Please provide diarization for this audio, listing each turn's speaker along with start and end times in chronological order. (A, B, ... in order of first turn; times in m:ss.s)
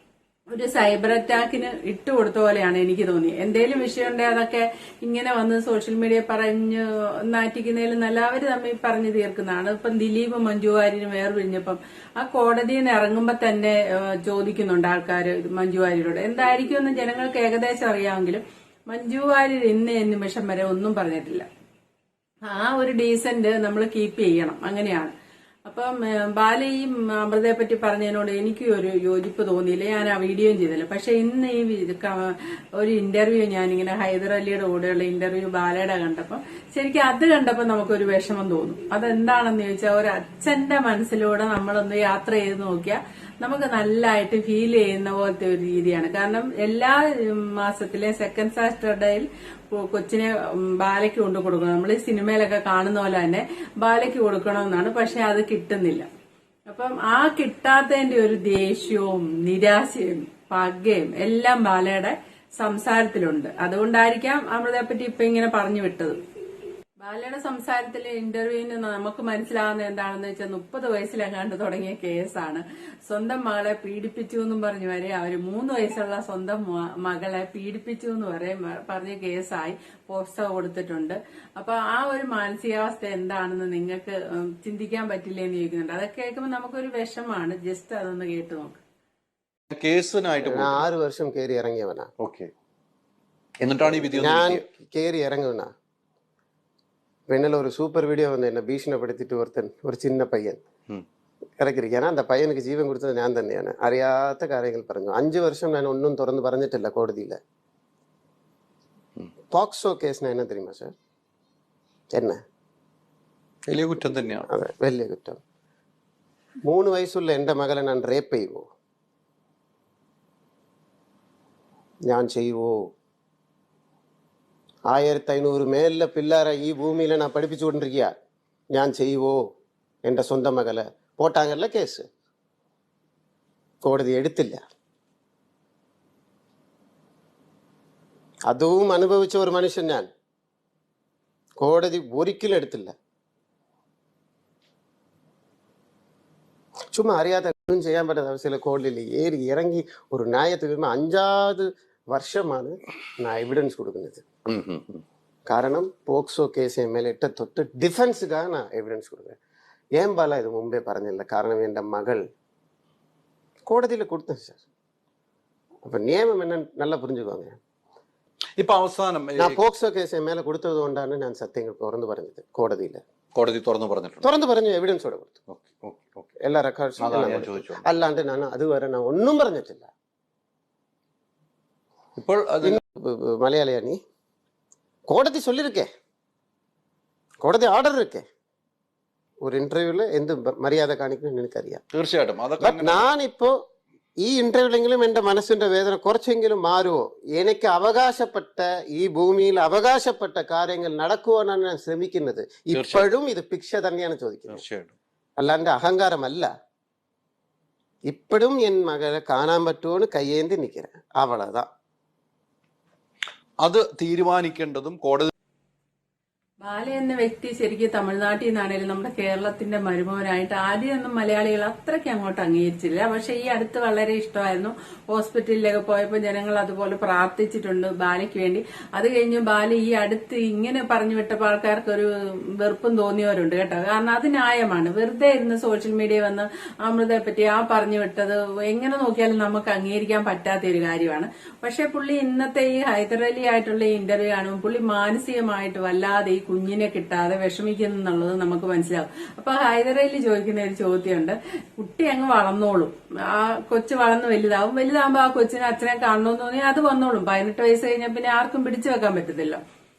0:00.5-0:21.4 A
0:22.5-0:25.1 A
0:25.7-0:56.1 A
0:56.7-1:06.2 A
1:07.0-1:28.8 A
1:29.7-1:30.8 B
1:30.4-1:32.1 C
1:32.2-1:32.5 B
1:33.6-1:34.6 B
1:33.6-1:35.7 C
1:37.3-1:40.6 C
1:41.6-1:47.4 C
1:49.5-1:50.9 C
1:52.1-1:52.4 C
1:53.7-1:54.5 B
1:54.5-1:55.4 C
1:56.6-1:58.6 C
2:02.1-2:02.9 C
2:04.9-2:08.1 C
2:08.7-2:09.4 C
2:10.0-2:12.1 C
2:13.8-2:14.6 C
2:18.5-2:20.1 C
2:21.6-2:22.9 C
2:26.9-2:34.2 C
2:34.4-2:35.0 B
2:35.5-2:39.4 C
2:40.0-2:42.2 C
2:43.6-2:44.6 C
2:45.8-2:47.6 C
2:48.6-2:49.6 B
2:49.4-2:53.0 C
2:53.4-2:54.2 B
2:54.2-2:55.4 C
2:55.5-2:56.3 B
2:56.4-2:59.9 C
2:57.0-2:57.9 B
3:02.2-3:02.8 B
3:02.6-3:04.0 C
3:05.1-3:05.9 C
3:07.4-3:08.2 C
3:09.4-3:11.8 C
3:11.9-3:13.1 B
3:12.6-3:13.6 C
3:14.2-3:24.6 C
3:22.7-3:23.1 B
3:24.5-3:24.9 B
3:25.4-3:26.5 C
3:28.1-3:31.7 C
3:33.6-3:35.3 B
3:36.6-4:19.6 A